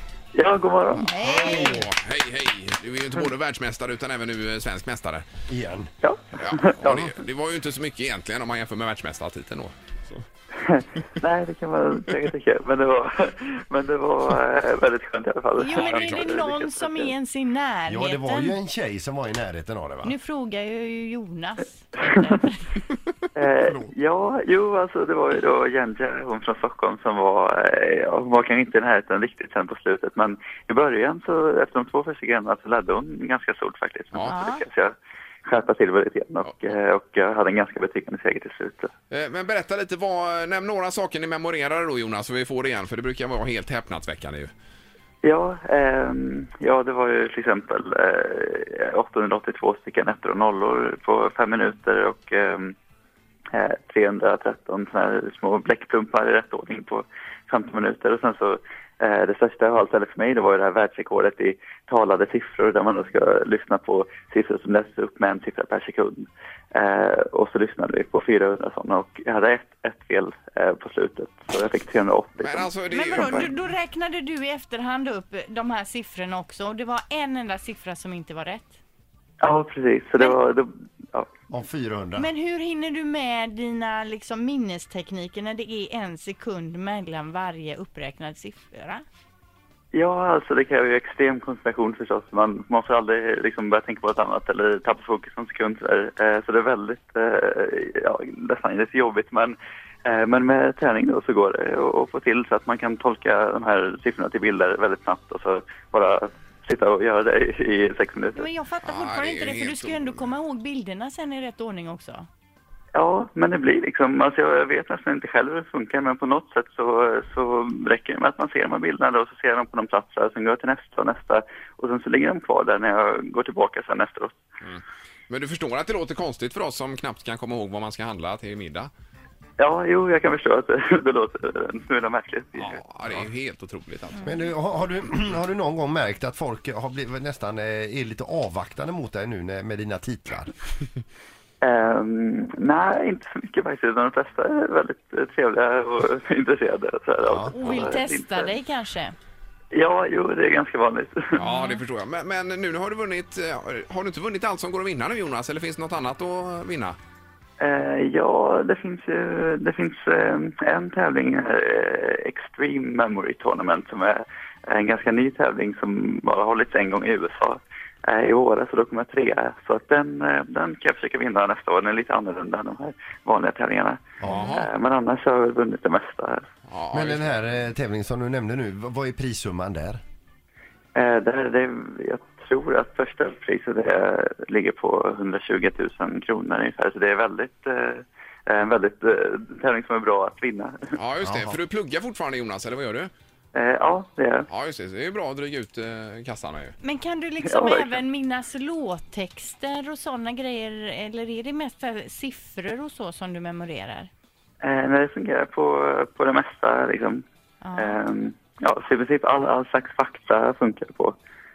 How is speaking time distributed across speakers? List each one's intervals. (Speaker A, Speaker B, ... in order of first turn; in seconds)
Speaker A: 0.3-1.2, 6.0-7.2, 10.6-17.1, 22.0-22.4, 23.4-38.9, 45.2-52.7, 53.5-73.6, 79.4-81.3, 89.9-108.5, 112.9-124.4, 129.6-132.8, 141.6-148.6, 149.7-151.4, 157.6-176.4, 180.9-190.8, 193.5-194.4, 197.4-198.0, 204.6-207.2, 207.8-211.2
Speaker B: 1.1-1.8, 15.6-18.5, 20.1-22.5, 34.3-34.6, 72.9-78.7, 82.3-89.0, 108.4-112.2, 147.5-149.1, 196.9-204.1
Speaker C: 1.2-5.2, 6.3-10.2, 15.7-16.4, 34.1-34.4, 39.1-44.5, 72.4-73.5, 108.8-110.2, 124.6-128.9, 132.6-134.3, 151.3-157.0, 174.2-174.7, 176.7-177.4, 190.9-193.1, 194.5-196.8
Speaker D: 1.3-1.8, 5.5-5.9, 17.9-20.1, 81.5-82.3, 134.2-140.5, 147.2-147.6, 174.2-174.6, 176.9-180.0, 191.2-191.6